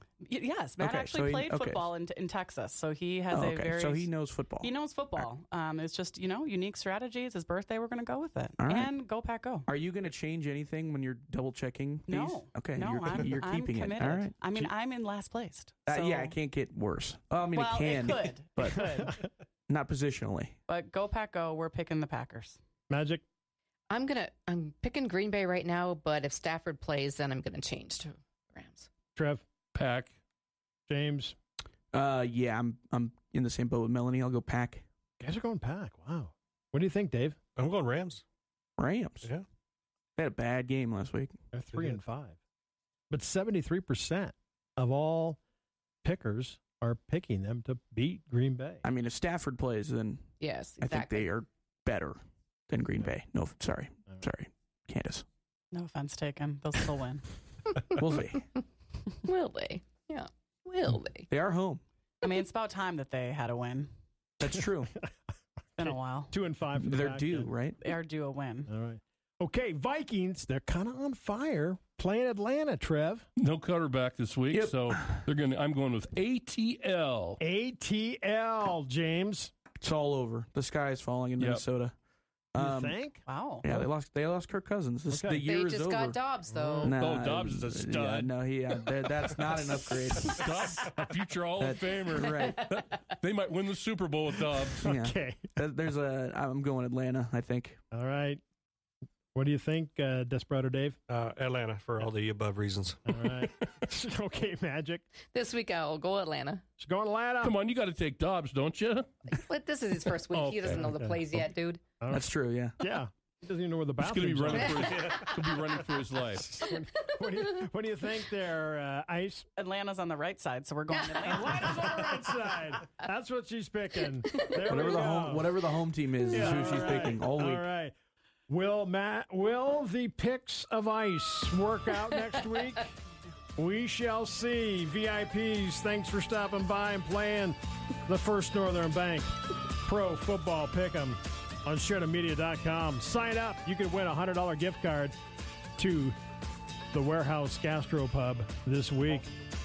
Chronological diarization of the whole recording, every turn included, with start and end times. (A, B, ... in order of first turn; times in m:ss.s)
0:00.2-0:09.7 A
0:00.8-0:01.9 B
0:03.3-0:04.7 B
0:08.6-0:08.9 B
0:09.7-0:14.3 B
0:12.1-0:16.3 A
0:15.8-0:18.9 B
0:17.5-0:19.2 A
0:18.7-0:19.1 C
0:19.7-0:20.6 B
0:20.7-0:22.6 A
0:22.9-0:23.2 C
0:23.9-0:28.9 D
0:29.1-0:29.4 C
0:29.7-0:30.1 E
0:30.9-0:31.4 C
0:31.9-0:34.8 B
0:35.2-0:37.4 C
0:37.6-0:38.2 F
0:38.8-0:39.3 B
0:40.2-0:41.4 B
0:41.5-0:42.4 C
0:41.7-0:42.0 F
0:43.1-0:45.4 C
0:46.0-0:48.8 C
0:48.8-0:55.2 B
0:50.4-0:51.3 D
0:55.7-0:57.3 A
0:57.7-0:58.0 D
0:58.0-0:58.4 B
0:59.2-1:01.3 D
1:01.3-1:01.8 B
1:02.2-1:03.9 A
1:04.4-1:04.9 B
1:04.5-1:05.1 C
1:05.8-1:06.4 A
1:05.8-1:07.5 C
1:06.8-1:07.8 B
1:07.8-1:08.7 A
1:08.7-1:13.3 C
1:13.4-1:17.4 E
1:14.5-1:15.2 B
1:17.4-1:19.5 C
1:19.8-1:21.9 B
1:22.5-1:23.0 B
1:22.6-1:23.2 C
1:23.2-1:23.6 A
1:23.6-1:26.2 B
1:25.1-1:25.4 C
1:25.4-1:27.0 D
1:26.8-1:30.5 B
1:26.9-1:28.3 E
1:30.2-1:34.9 E
1:31.6-1:32.6 B
1:34.8-1:35.5 C
1:34.8-1:37.8 B
1:37.9-1:38.4 C
1:39.3-1:41.0 C
1:41.1-1:43.1 F
1:43.0-1:45.1 C
1:45.3-1:46.6 D
1:46.8-1:47.5 C
1:47.4-1:49.1 E
1:49.3-1:51.8 D
1:50.3-1:50.9 E
1:50.8-1:51.2 C
1:52.0-1:52.3 C
1:52.1-1:52.8 B
1:52.8-1:59.5 C
1:54.0-1:56.5 E
1:54.5-1:55.1 D
1:54.7-1:55.4 F
1:56.6-1:57.4 D
1:59.6-2:01.8 A
2:00.9-2:02.1 D
2:01.2-2:05.5 C
2:04.3-2:04.7 D
2:04.7-2:07.6 B
2:06.3-2:07.9 C
2:08.5-2:13.0 C
2:13.6-2:25.2 C
2:25.8-2:26.2 C
2:26.9-2:29.3 C